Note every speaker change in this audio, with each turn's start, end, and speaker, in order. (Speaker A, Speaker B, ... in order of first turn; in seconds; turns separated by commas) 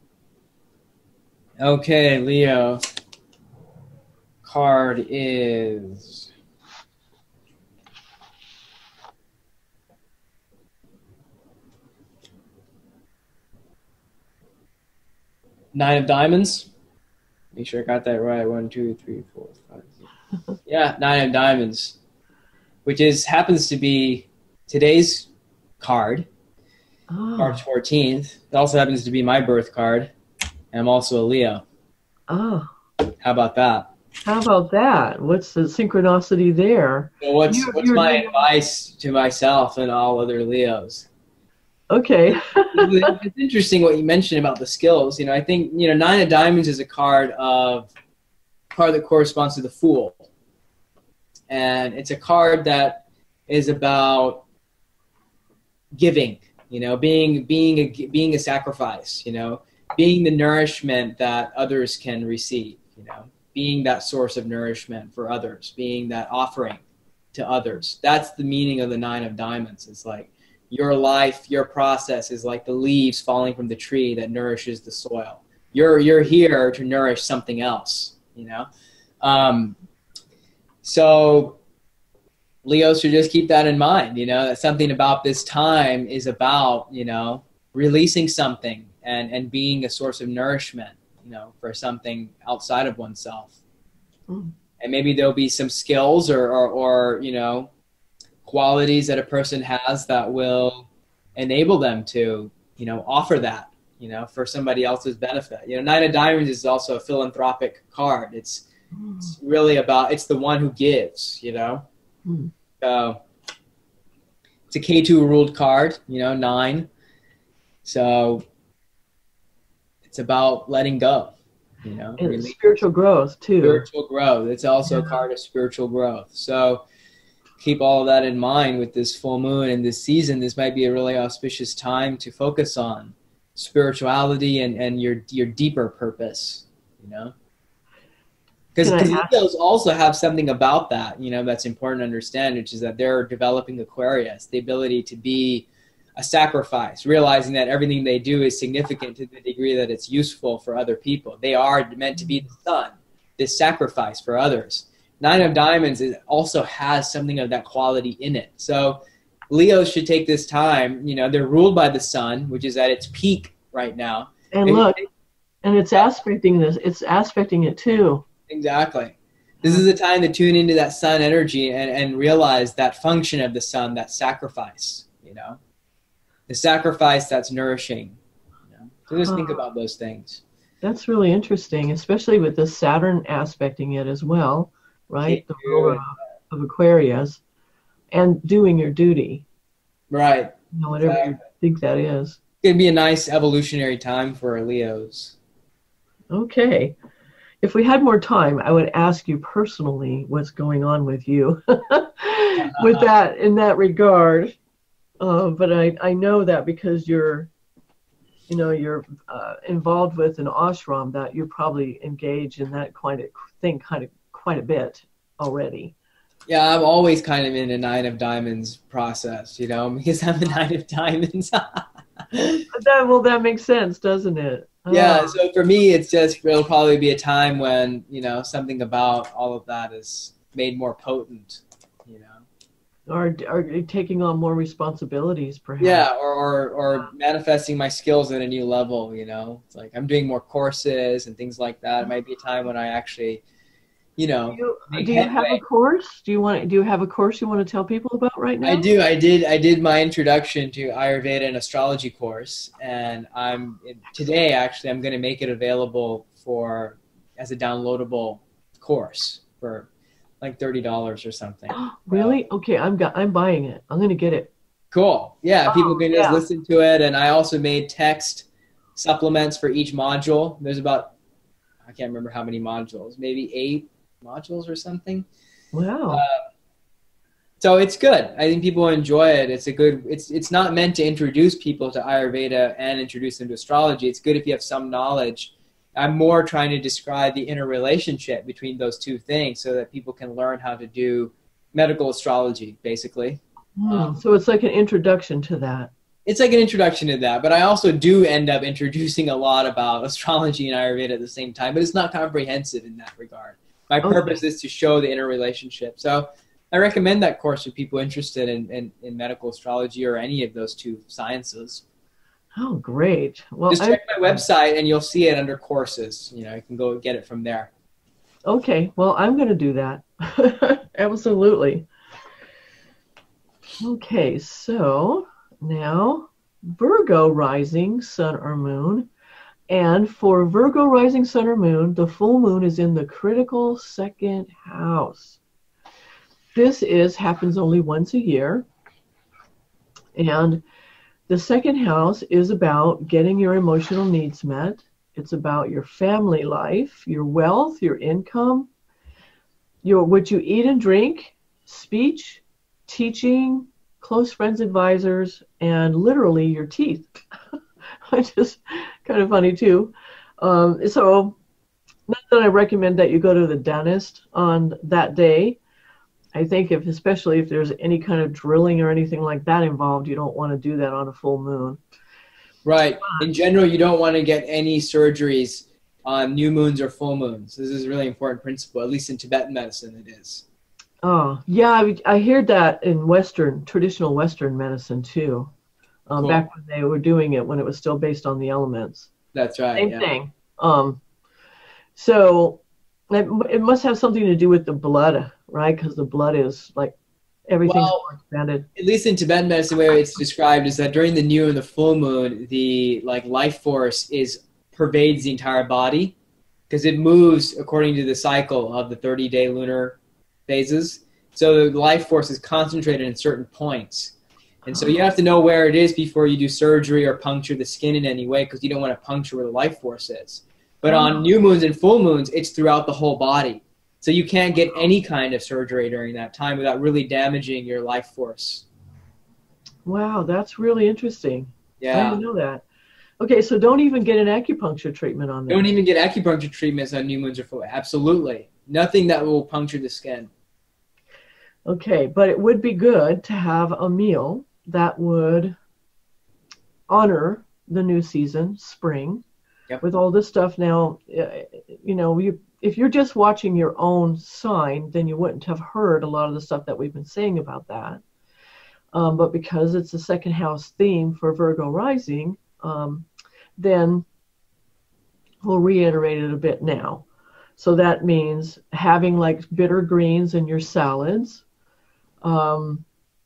Speaker A: 1.6-2.8, Speaker A: 4.4-6.3, Speaker A: 15.7-16.7, Speaker A: 17.5-20.0, Speaker A: 20.7-22.0, Speaker A: 22.9-25.3, Speaker A: 25.8-26.3, Speaker B: 27.1-27.6, Speaker A: 27.4-30.1, Speaker A: 30.7-31.6, Speaker B: 32.3-32.7, Speaker A: 33.2-33.9, Speaker B: 34.2-38.4, Speaker A: 37.2-41.1, Speaker B: 41.9-43.1, Speaker A: 42.7-47.9, Speaker A: 48.7-50.3, Speaker A: 51.5-54.4, Speaker A: 56.0-66.8, Speaker A: 67.3-78.7, Speaker A: 79.2-79.8, Speaker A: 80.8-81.6, Speaker A: 82.6-93.5, Speaker A: 94.8-97.7, Speaker A: 98.5-108.7, Speaker B: 109.0-109.3, Speaker A: 109.2-111.8, Speaker B: 112.2-112.5, Speaker A: 112.8-113.2, Speaker A: 114.7-116.9, Speaker A: 117.8-118.4, Speaker A: 120.1-122.8, Speaker B: 122.2-123.9, Speaker A: 123.6-126.8, Speaker B: 124.9-125.2, Speaker A: 127.6-137.3, Speaker A: 138.8-165.1, Speaker B: 138.8-139.3, Speaker B: 164.5-165.0, Speaker B: 165.6-168.2, Speaker A: 168.5-175.6, Speaker A: 176.5-178.2, Speaker A: 178.7-180.4, Speaker B: 179.3-179.6, Speaker B: 180.8-187.4, Speaker A: 185.2-186.1, Speaker B: 188.1-189.4, Speaker A: 190.1-191.4, Speaker B: 190.7-192.4, Speaker A: 192.6-195.4, Speaker B: 196.3-197.0, Speaker B: 197.6-204.6, Speaker A: 202.6-203.1, Speaker B: 205.2-207.5, Speaker B: 208.5-215.9, Speaker A: 216.5-222.7, Speaker B: 222.7-225.4, Speaker A: 224.9-232.4, Speaker B: 233.1-236.1, Speaker A: 235.8-243.4, Speaker A: 244.2-245.6, Speaker B: 244.5-248.9, Speaker A: 248.6-259.9, Speaker A: 260.4-262.4, Speaker B: 261.7-264.5, Speaker A: 264.9-271.1, Speaker B: 265.7-266.4, Speaker A: 271.8-275.3, Speaker B: 275.7-276.2, Speaker A: 276.1-276.4, Speaker A: 277.6-294.1, Speaker B: 293.8-295.9, Speaker A: 296.2-311.8, Speaker B: 304.0-304.4, Speaker B: 312.6-314.4, Speaker A: 313.7-317.7, Speaker B: 318.5-321.9, Speaker B: 323.8-329.1, Speaker B: 329.7-335.4, Speaker B: 336.5-338.7, Speaker B: 340.1-340.6, Speaker B: 341.3-348.7, Speaker B: 349.8-357.1, Speaker B: 358.1-361.4, Speaker B: 362.1-365.6, Speaker B: 366.4-371.8, Speaker A: 372.6-380.4, Speaker B: 373.0-373.3, Speaker B: 381.0-385.5, Speaker B: 386.1-389.1, Speaker A: 386.2-386.4, Speaker A: 389.3-390.1, Speaker B: 389.7-391.0, Speaker B: 391.9-396.9, Speaker B: 397.5-398.7, Speaker A: 397.7-398.1, Speaker A: 398.8-406.2, Speaker A: 406.7-414.1, Speaker A: 414.7-428.7, Speaker B: 414.7-415.0, Speaker B: 420.9-421.3, Speaker B: 429.9-432.6, Speaker A: 431.8-432.2, Speaker B: 433.2-435.7, Speaker A: 435.5-440.3, Speaker B: 441.7-445.6, Speaker B: 446.9-449.2, Speaker B: 449.8-458.0, Speaker B: 458.9-464.1, Speaker B: 465.4-467.1, Speaker B: 467.6-471.4, Speaker B: 472.2-472.9